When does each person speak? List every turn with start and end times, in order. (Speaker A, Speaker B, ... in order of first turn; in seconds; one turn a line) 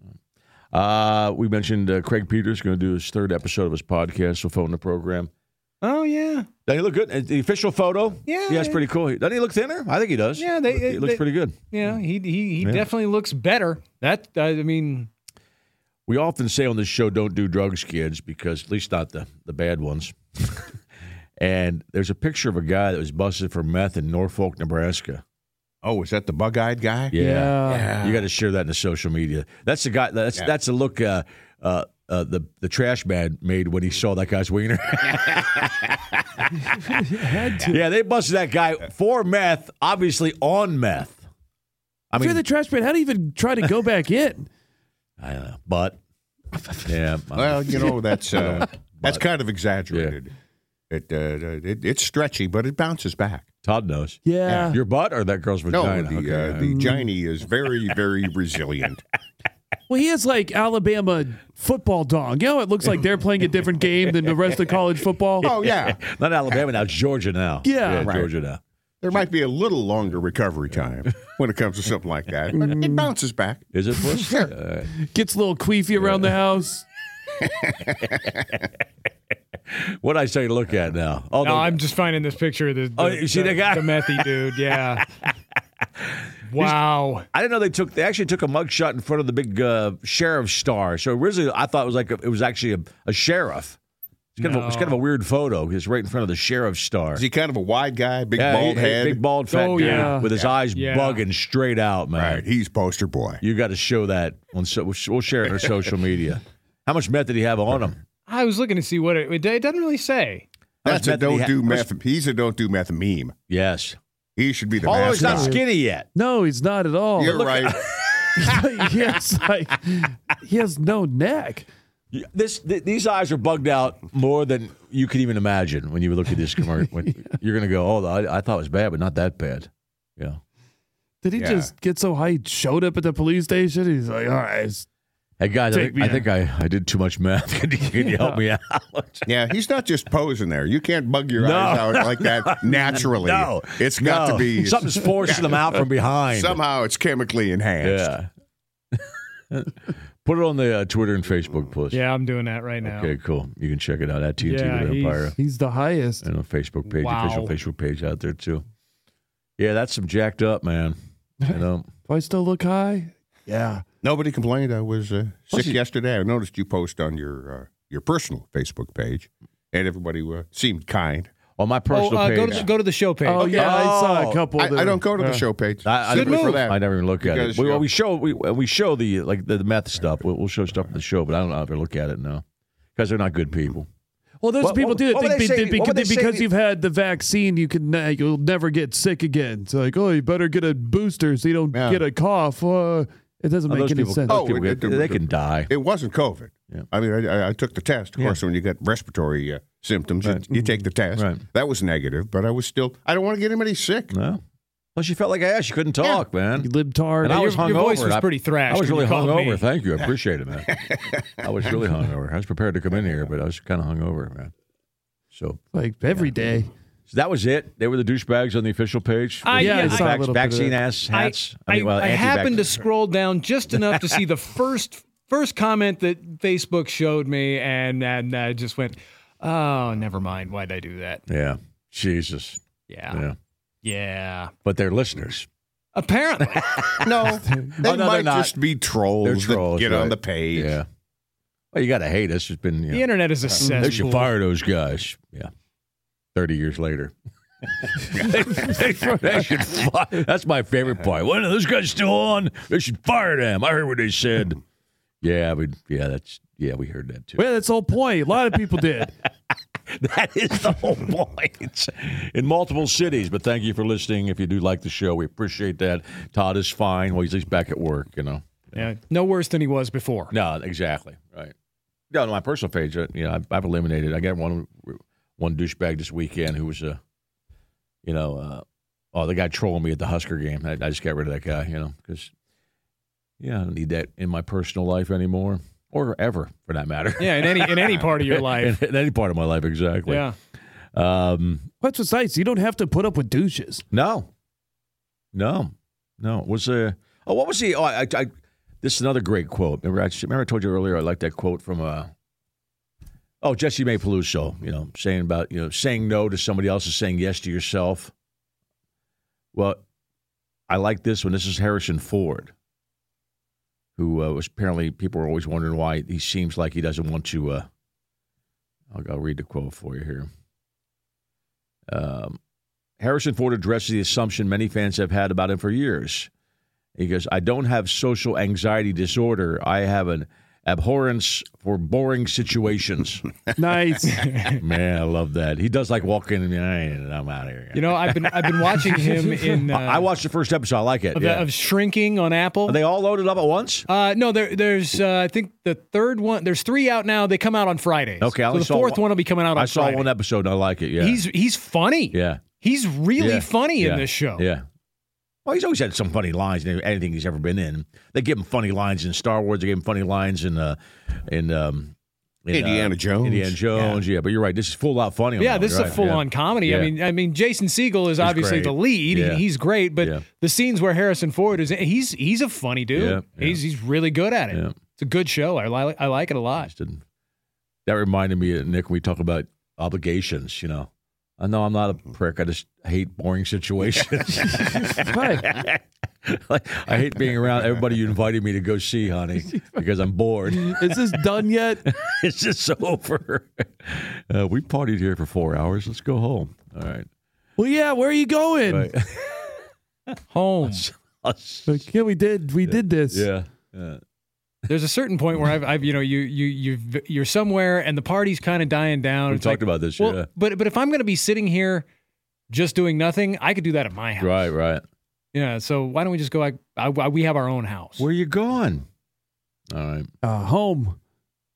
Speaker A: 0.7-5.3
Speaker B: 5.8-6.5
Speaker A: 6.7-12.0
Speaker B: 8.3-8.8
Speaker B: 10.4-15.1
Speaker A: 12.6-12.9
Speaker A: 16.1-20.7
Speaker A: 21.4-25.2
Speaker C: 25.8-28.2
Speaker A: 27.1-41.2
Speaker D: 27.1-27.9
Speaker D: 36.9-37.7
Speaker A: 42.1-42.4
Speaker D: 42.2-44.5
Speaker A: 45.2-46.0
Speaker A: 46.8-49.2
Speaker C: 47.3-50.3
Speaker C: 50.9-53.5
Speaker A: 53.6-56.6
Speaker D: 54.2-54.8
Speaker C: 54.5-54.8
Speaker C: 55.7-59.0
Speaker D: 56.6-57.0
Speaker D: 59.9-65.5
Speaker C: 65.4-66.0
Speaker A: 65.4-68.6
Speaker D: 67.6-68.1
Speaker C: 68.0-68.3
Speaker C: 69.0-74.5
Speaker D: 72.5-73.1
Speaker A: 73.7-74.9
Speaker D: 75.0-76.8
Speaker A: 76.0-76.3
Speaker A: 78.1-78.4
Speaker A: 79.7-81.8
Speaker B: 81.4-85.0
Speaker A: 83.0-85.0
Speaker A: 86.0-93.8
Speaker B: 86.4-87.3
Speaker A: 94.4-97.2
Speaker B: 94.4-95.0
Speaker C: 97.1-99.2
Speaker A: 98.3-102.4
Speaker B: 99.5-100.2
Speaker D: 99.8-100.3
Speaker B: 100.7-101.2
Speaker C: 102.1-103.4
Speaker A: 103.4-108.0
Speaker B: 108.3-110.5
Speaker A: 110.8-111.9
Speaker C: 110.8-113.3
Speaker A: 113.5-114.0
Speaker C: 114.3-115.6
Speaker A: 114.8-116.1
Speaker D: 115.2-115.6
Speaker D: 116.1-117.4
Speaker C: 117.2-117.8
Speaker A: 117.3-117.6
Speaker D: 118.3-121.7
Speaker A: 122.1-130.4
Speaker D: 131.2-134.8
Speaker C: 131.3-131.7
Speaker A: 135.4-139.3
Speaker D: 135.7-136.2
Speaker D: 137.9-138.4
Speaker C: 139.2-145.6
Speaker A: 141.4-146.6
Speaker C: 146.3-148.1
Speaker A: 147.8-148.3
Speaker A: 148.9-152.0
Speaker B: 151.9-153.1
Speaker A: 152.8-155.3
Speaker B: 154.4-155.3
Speaker D: 155.4-156.2
Speaker A: 156.2-158.6
Speaker B: 156.8-157.5
Speaker A: 159.6-161.0
Speaker D: 161.4-163.8
Speaker A: 161.5-161.9
Speaker C: 164.0-171.3
Speaker A: 165.5-165.8
Speaker A: 171.6-172.7
Speaker B: 171.9-173.7
Speaker D: 173.2-175.5
Speaker A: 173.4-174.4
Speaker C: 174.6-177.8
Speaker A: 175.8-182.4
Speaker B: 176.1-176.6
Speaker A: 182.9-183.9
Speaker D: 184.4-194.4
Speaker A: 184.6-186.5
Speaker C: 191.7-192.0
Speaker A: 193.7-195.7
Speaker C: 194.3-204.1
Speaker A: 201.2-201.4
Speaker A: 204.1-204.4
Speaker A: 204.9-206.7
Speaker D: 206.6-207.4
Speaker A: 207.2-214.5
Speaker B: 207.3-209.6
Speaker A: 215.3-215.6
Speaker D: 215.7-216.7
Speaker A: 217.1-222.8
Speaker B: 219.4-220.1
Speaker D: 219.6-220.8
Speaker B: 221.1-231.2
Speaker A: 223.7-224.2
Speaker A: 231.3-233.3
Speaker B: 232.9-233.2
Speaker B: 233.8-234.5
Speaker A: 234.6-235.5
Speaker B: 235.9-236.8
Speaker A: 236.8-238.5
Speaker C: 237.0-240.8
Speaker A: 239.2-240.8
Speaker A: 241.7-245.5
Speaker B: 242.9-244.3
Speaker A: 246.3-247.1
Speaker A: 247.8-254.6
Speaker D: 249.0-249.3
Speaker A: 255.2-257.4
Speaker D: 257.4-259.1
Speaker A: 259.9-268.8
Speaker B: 268.7-270.3
Speaker A: 270.3-271.5
Speaker A: 272.1-277.0
Speaker A: 278.0-282.3
Speaker A: 283.4-290.3
Speaker B: 287.2-288.8
Speaker B: 290.1-290.4
Speaker A: 290.9-291.7
Speaker D: 291.8-293.8
Speaker A: 293.9-294.3
Speaker A: 295.3-298.3
Speaker A: 298.8-302.1
Speaker A: 303.4-308.1
Speaker A: 309.5-309.8
Speaker A: 310.7-312.5
Speaker A: 314.0-317.7
Speaker A: 318.9-320.3
Speaker A: 321.9-322.4
Speaker A: 323.0-326.3
Speaker A: 327.0-333.3
Speaker D: 333.6-334.2
Speaker B: 334.1-334.6
Speaker A: 334.6-341.5
Speaker B: 337.7-340.1
Speaker B: 341.1-342.8
Speaker A: 342.6-343.9
Speaker B: 343.9-350.1
Speaker A: 348.2-351.2
Speaker B: 351.0-354.4
Speaker A: 352.1-352.4
Speaker A: 353.1-354.6
Speaker A: 355.4-361.9
Speaker A: 362.4-366.9
Speaker C: 362.5-364.0
Speaker B: 365.4-376.7
Speaker A: 368.2-369.4
Speaker A: 372.9-373.6
Speaker A: 376.6-377.0
Speaker A: 377.9-397.1
Speaker D: 384.4-385.4
Speaker D: 389.5-389.8
Speaker D: 390.5-391.8
Speaker D: 397.6-398.9
Speaker A: 398.7-399.5
Speaker B: 400.3-400.9
Speaker A: 400.6-401.8
Speaker D: 401.7-403.3
Speaker A: 402.6-404.0
Speaker B: 404.7-411.9
Speaker A: 409.3-410.3
Speaker B: 412.5-414.5
Speaker A: 414.2-414.8
Speaker B: 415.3-418.0
Speaker A: 418.0-418.8
Speaker A: 419.7-420.1
Speaker D: 420.2-421.0